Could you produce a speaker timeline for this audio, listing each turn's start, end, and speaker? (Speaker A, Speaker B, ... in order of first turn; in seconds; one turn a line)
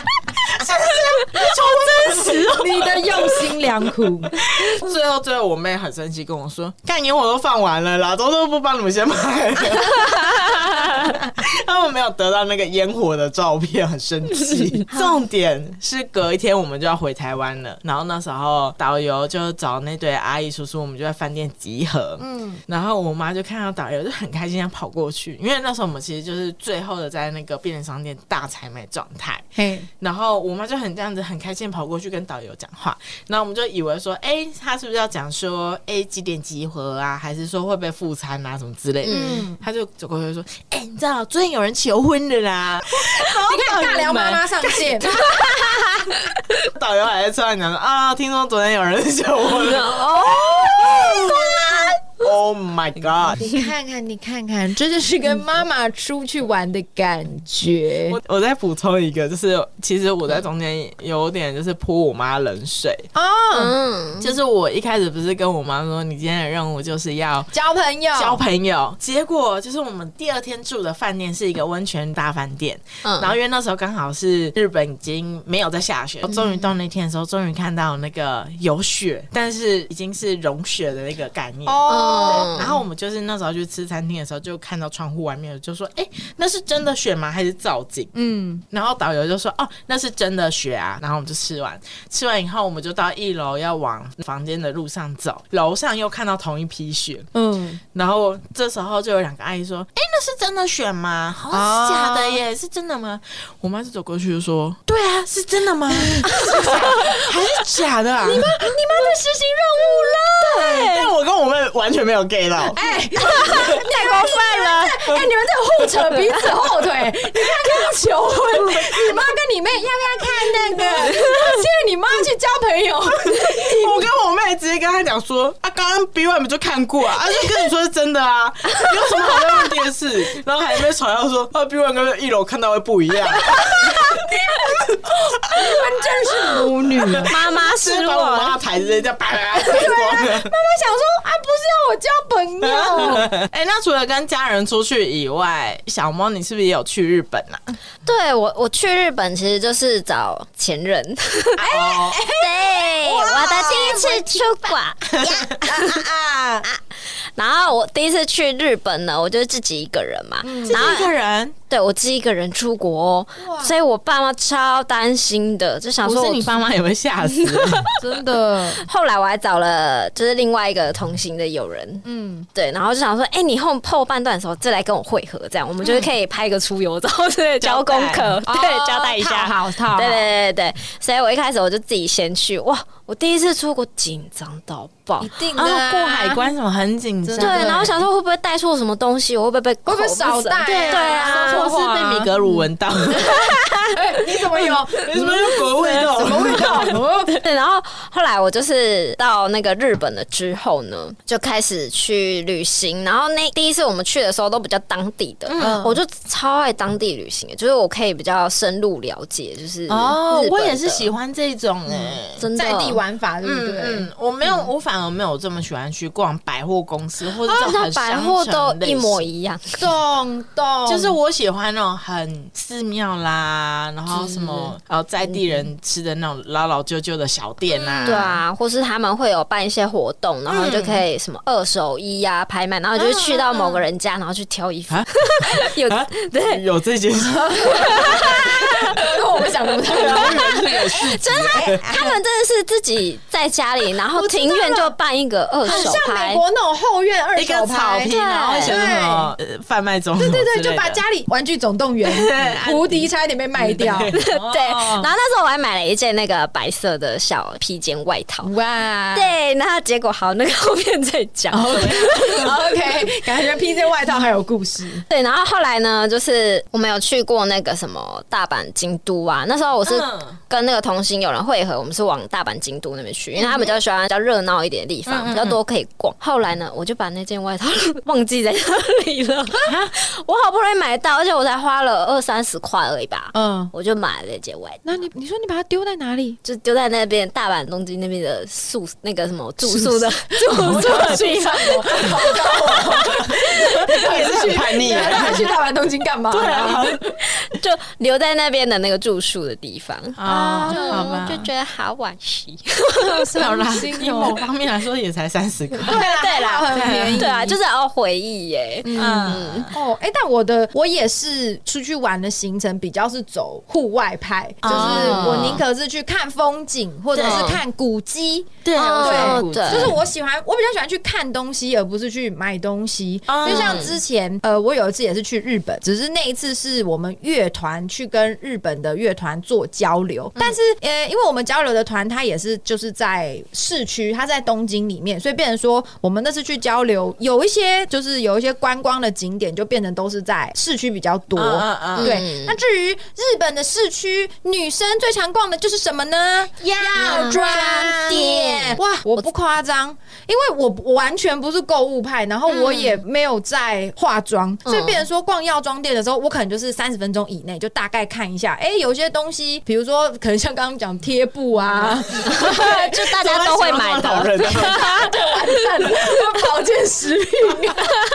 Speaker A: 0.4-29.5
Speaker B: 1.3-4.4
Speaker B: 22.2-22.6
Speaker B: 29.6-29.9
Speaker A: 30.0-45.8
Speaker C: 39.0-39.4
Speaker B: 39.0-39.6
Speaker B: 43.2-45.2
Speaker C: 45.1-46.1
Speaker A: 46.6-53.5
Speaker C: 49.5-51.2
Speaker B: 50.3-51.9
Speaker B: 53.4-58.2
Speaker A: 58.1-63.1
Speaker B: 63.1-63.8
Speaker C: 63.5-64.3
Speaker A: 64.2-67.5
Speaker B: 67.5-68.4
Speaker A: 68.1-88.1
Speaker C: 73.0-73.3
Speaker C: 76.3-76.6
Speaker B: 81.7-82.7
Speaker C: 81.9-82.7
Speaker B: 88.1-88.6
Speaker A: 88.7-97.3
Speaker B: 97.3-97.8
Speaker A: 97.9-108.5
Speaker B: 101.5-102.4
Speaker B: 105.9-107.3
Speaker B: 108.2-110.8
Speaker A: 110.4-115.2
Speaker C: 110.4-111.1
Speaker B: 112.7-124.1
Speaker C: 113.3-114.8
Speaker A: 118.5-119.2
Speaker A: 120.7-121.3
Speaker A: 123.2-134.3
Speaker B: 133.2-137.3
Speaker A: 135.0-135.8
Speaker A: 136.3-140.5
Speaker C: 137.2-138.6
Speaker B: 139.5-143.3
Speaker A: 142.6-147.7
Speaker C: 148.0-151.7
Speaker B: 151.6-154.4
Speaker A: 151.7-152.2
Speaker C: 152.3-156.1
Speaker A: 153.4-154.1
Speaker A: 155.1-156.7
Speaker C: 157.3-161.1
Speaker B: 160.4-160.9
Speaker A: 160.7-161.6
Speaker C: 161.7-166.5
Speaker B: 163.4-163.7
Speaker A: 166.0-167.9
Speaker C: 167.2-168.0
Speaker B: 168.0-168.8
Speaker C: 168.8-185.3
Speaker B: 172.0-172.5
Speaker A: 177.6-178.3
Speaker B: 178.4-180.3
Speaker B: 185.2-186.5
Speaker A: 185.6-188.0
Speaker B: 187.2-188.0
Speaker C: 187.4-191.7
Speaker B: 189.8-192.3
Speaker A: 190.6-193.5
Speaker C: 193.1-193.9
Speaker B: 193.9-197.3
Speaker A: 194.3-197.0
Speaker C: 196.5-211.1
Speaker A: 205.5-205.9
Speaker B: 205.6-205.9
Speaker A: 209.9-212.4
Speaker C: 212.3-213.0
Speaker B: 212.5-214.1
Speaker A: 213.4-219.2
Speaker C: 217.4-219.8
Speaker B: 219.8-221.1
Speaker A: 220.9-228.4
Speaker C: 224.1-224.7
Speaker B: 227.8-228.3
Speaker C: 228.0-236.6
Speaker A: 230.5-231.0
Speaker A: 233.0-233.8
Speaker A: 234.9-238.9
Speaker B: 237.2-242.2
Speaker C: 237.6-238.7
Speaker A: 239.9-241.8
Speaker C: 240.0-246.4
Speaker B: 244.1-244.9
Speaker B: 245.6-249.3
Speaker A: 245.6-246.0
Speaker A: 247.3-251.0
Speaker C: 248.0-248.8
Speaker B: 250.2-254.1
Speaker A: 252.0-255.1
Speaker C: 254.1-258.5
Speaker B: 258.4-259.3
Speaker C: 259.1-262.5
Speaker B: 261.5-265.0
Speaker A: 261.7-262.5
Speaker C: 265.1-284.9
Speaker A: 269.8-270.4
Speaker A: 275.1-275.6
Speaker B: 279.6-279.9
Speaker B: 283.3-283.7
Speaker B: 284.8-286.4
Speaker C: 286.4-292.8
Speaker B: 289.6-297.1
Speaker A: 290.6-291.2
Speaker A: 291.9-295.5
Speaker A: 296.3-297.0
Speaker C: 297.2-303.4
Speaker A: 300.2-301.5
Speaker B: 300.2-301.2
Speaker B: 303.1-304.4
Speaker A: 303.2-306.1
Speaker B: 305.8-307.6
Speaker C: 305.9-309.7
Speaker A: 306.7-307.2
Speaker B: 308.8-363.0
Speaker A: 308.9-309.8
Speaker A: 314.6-315.6
Speaker C: 314.6-315.6
Speaker A: 317.1-317.5
Speaker C: 317.2-317.6
Speaker A: 318.6-320.0
Speaker C: 318.8-319.9
Speaker A: 323.3-323.9
Speaker C: 323.4-323.9
Speaker A: 341.4-342.2
Speaker C: 341.9-342.6
Speaker A: 346.6-348.6
Speaker C: 346.9-349.2
Speaker C: 352.5-353.0
Speaker C: 354.6-355.0
Speaker A: 362.1-365.1
Speaker C: 362.2-365.1
Speaker B: 364.4-368.0